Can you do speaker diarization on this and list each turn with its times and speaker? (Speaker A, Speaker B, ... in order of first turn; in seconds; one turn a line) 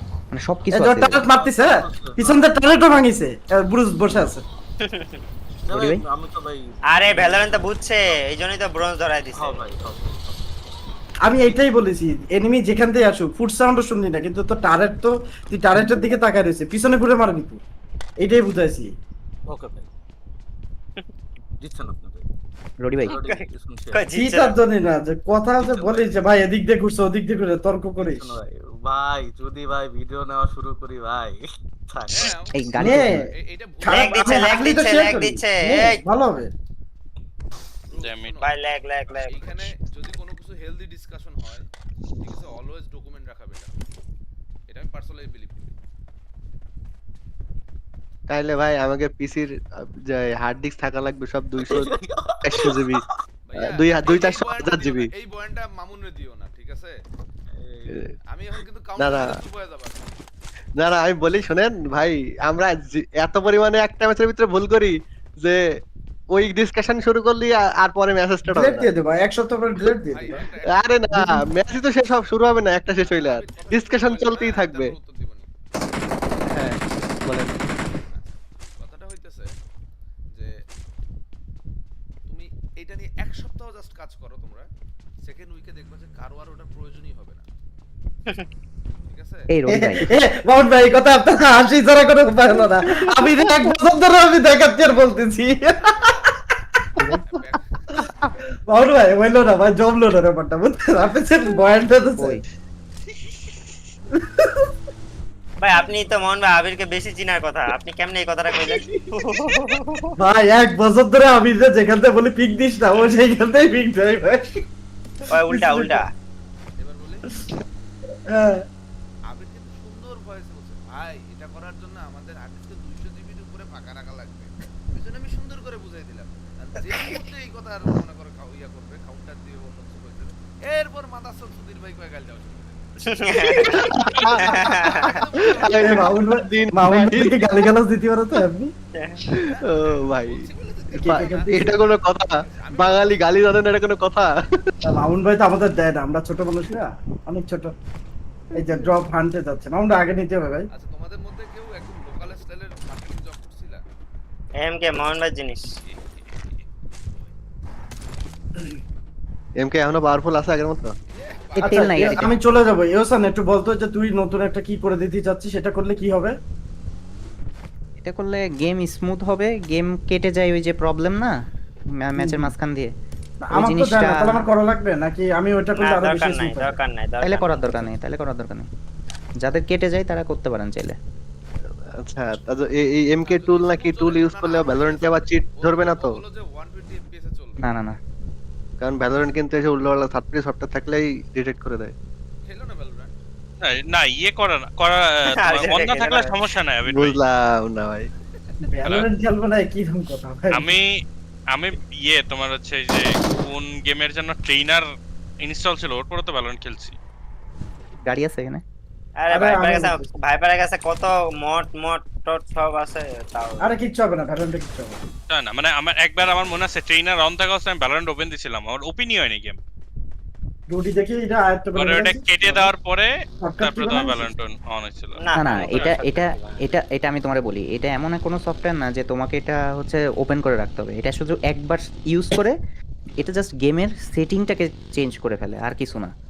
Speaker A: 0.3-1.3
Speaker B: 0.7-4.4
Speaker C: 1.4-2.4
Speaker D: 4.8-5.2
Speaker C: 5.7-7.7
Speaker A: 5.7-6.0
Speaker D: 6.9-9.6
Speaker C: 9.3-10.5
Speaker B: 11.2-17.6
Speaker B: 18.2-18.9
Speaker C: 19.5-19.9
Speaker C: 21.6-22.3
Speaker A: 22.8-23.2
Speaker C: 23.1-24.1
Speaker D: 23.1-24.6
Speaker B: 24.1-28.4
Speaker C: 25.6-26.1
Speaker C: 28.0-32.4
Speaker E: 32.1-32.7
Speaker A: 32.5-33.2
Speaker B: 32.8-33.3
Speaker E: 33.4-33.9
Speaker B: 33.8-36.5
Speaker D: 33.9-36.0
Speaker E: 37.9-38.5
Speaker F: 38.0-38.4
Speaker D: 38.4-39.7
Speaker E: 39.1-41.7
Speaker E: 42.2-43.8
Speaker E: 44.7-45.8
Speaker G: 48.3-51.9
Speaker C: 51.6-52.9
Speaker G: 52.4-53.0
Speaker E: 53.5-57.0
Speaker G: 53.5-55.1
Speaker C: 57.5-58.0
Speaker E: 58.3-60.1
Speaker G: 59.0-59.4
Speaker G: 60.8-65.6
Speaker G: 66.3-68.9
Speaker B: 68.5-70.5
Speaker E: 70.1-70.9
Speaker G: 70.6-75.0
Speaker E: 72.9-75.5
Speaker C: 74.0-74.4
Speaker G: 76.5-77.5
Speaker E: 77.9-79.5
Speaker E: 82.3-84.7
Speaker E: 85.2-87.5
Speaker E: 89.1-89.5
Speaker A: 89.5-90.1
Speaker B: 89.7-96.2
Speaker E: 95.9-96.3
Speaker E: 97.1-97.9
Speaker B: 98.7-102.4
Speaker A: 102.2-102.4
Speaker D: 105.6-110.1
Speaker G: 108.5-109.5
Speaker B: 110.2-114.6
Speaker B: 115.3-116.0
Speaker D: 115.3-116.1
Speaker E: 116.8-117.2
Speaker B: 118.3-118.6
Speaker E: 119.3-132.8
Speaker D: 126.8-127.2
Speaker D: 133.1-133.9
Speaker G: 133.6-137.7
Speaker F: 134.2-134.4
Speaker D: 134.5-135.2
Speaker E: 134.8-135.8
Speaker B: 135.7-138.7
Speaker D: 139.0-139.2
Speaker G: 139.3-144.3
Speaker E: 139.7-143.4
Speaker B: 140.9-141.6
Speaker B: 144.8-147.8
Speaker B: 148.6-150.7
Speaker E: 150.7-153.8
Speaker D: 154.6-155.6
Speaker E: 155.8-157.3
Speaker G: 159.6-160.9
Speaker E: 161.1-162.1
Speaker B: 161.6-166.4
Speaker A: 161.6-162.4
Speaker A: 168.0-171.4
Speaker A: 171.9-172.9
Speaker B: 172.2-172.5
Speaker B: 173.4-176.8
Speaker A: 173.5-174.5
Speaker D: 175.8-177.8
Speaker A: 177.2-178.7
Speaker A: 179.4-181.0
Speaker G: 182.0-186.2
Speaker E: 183.2-187.7
Speaker A: 187.6-188.0
Speaker G: 188.8-191.9
Speaker E: 192.4-193.2
Speaker F: 193.6-197.2
Speaker D: 195.3-196.4
Speaker G: 196.9-198.1
Speaker B: 198.6-200.7
Speaker F: 198.8-199.1
Speaker F: 200.5-204.9
Speaker F: 205.4-207.0
Speaker A: 208.1-208.6
Speaker D: 209.2-213.7
Speaker B: 209.3-210.1
Speaker B: 213.6-215.0
Speaker F: 215.3-219.6
Speaker B: 220.7-222.7
Speaker F: 221.8-226.1
Speaker B: 223.4-224.3
Speaker D: 225.2-226.6
Speaker A: 225.3-232.6
Speaker A: 233.2-236.1